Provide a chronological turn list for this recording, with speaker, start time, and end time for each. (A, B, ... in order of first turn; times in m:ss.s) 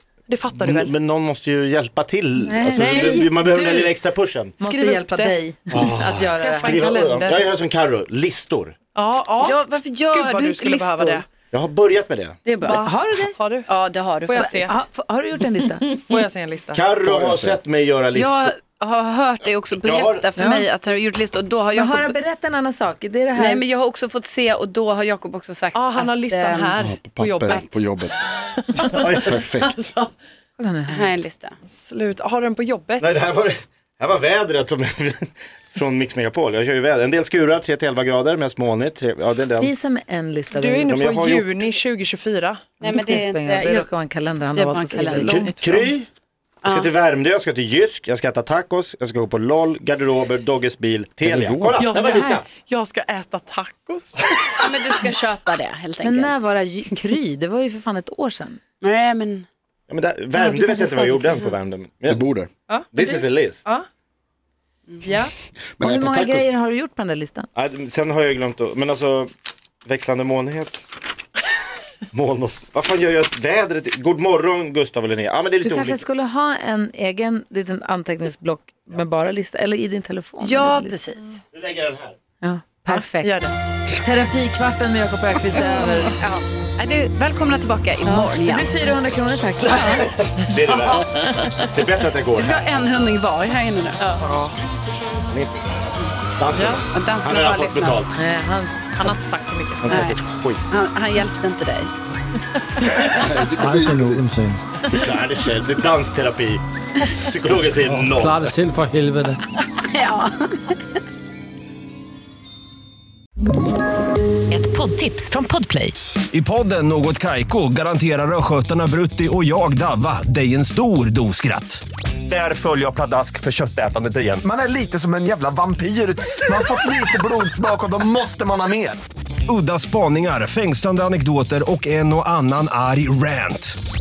0:00.3-0:00.9 A
0:00.5-0:04.6 B
0:02.4-0:03.9 C
0:02.7-0:03.2 A
0:04.6-0:05.8 C
0:04.6-0:07.5 A
0:05.7-0:08.8 B
0:08.9-0:11.2 A
0:09.4-0:11.2 D
0:11.5-0:12.4 B
0:12.4-0:12.8 D
0:12.6-0:13.3 C
0:12.6-0:13.7 A
0:13.7-0:14.7 D
0:14.2-0:14.7 A
0:14.3-0:15.9 C
0:16.0-0:16.9 A
0:16.7-0:18.5 B
0:17.0-0:17.6 E
0:18.1-0:22.2 D
0:19.8-0:20.3 B
0:20.4-0:20.6 C
0:21.7-0:23.6 C
0:23.4-0:26.8 D
0:25.7-0:29.1 A
0:26.8-0:28.2 E
0:27.5-0:27.8 D
0:28.9-0:29.4 B
0:29.2-0:29.9 E
0:30.6-0:31.1 C
0:30.9-0:31.6 D
0:31.8-0:33.1 A
0:33.0-0:39.7 B
0:39.6-0:40.9 C
0:40.5-0:42.8 A
0:40.9-0:41.6 B
0:42.8-0:45.5 C
0:42.8-0:43.9 D
0:44.5-0:45.5 D
0:45.2-0:45.9 A
0:45.4-0:46.1 B
0:46.6-0:52.4 B
0:51.2-0:51.9 E
0:51.8-0:55.1 A
0:52.0-0:52.4 C
0:54.6-0:56.3 D
0:56.0-0:58.6 C
0:58.8-0:59.4 D
0:59.9-1:02.2 B
1:00.5-1:01.2 A
1:02.1-1:02.5 E
1:02.7-1:03.8 A
1:02.9-1:03.6 B
1:05.0-1:05.3 A
1:05.8-1:06.5 E
1:05.8-1:07.5 C
1:07.6-1:09.3 B
1:09.8-1:10.8 B
1:12.1-1:16.0 B
1:15.6-1:21.0 C
1:20.4-1:21.4 D
1:21.5-1:22.2 B
1:22.4-1:23.4 C
1:22.9-1:23.6 A
1:24.0-1:26.1 C
1:25.6-1:28.7 D
1:28.0-1:30.0 C
1:29.6-1:32.8 B
1:32.4-1:34.0 D
1:34.2-1:34.6 A
1:35.3-1:38.2 B
1:36.5-1:36.8 A
1:36.9-1:38.1 D
1:38.1-1:39.2 C
1:39.0-1:40.0 A
1:39.8-1:40.6 B
1:39.9-1:41.9 D
1:42.9-1:44.2 E
1:43.6-1:44.6 F
1:44.9-1:48.6 B
1:47.8-1:49.4 F
1:49.8-1:50.8 D
1:54.5-1:55.9 C
1:56.3-2:04.5 G
2:04.4-2:09.0 H
2:09.5-2:13.8 G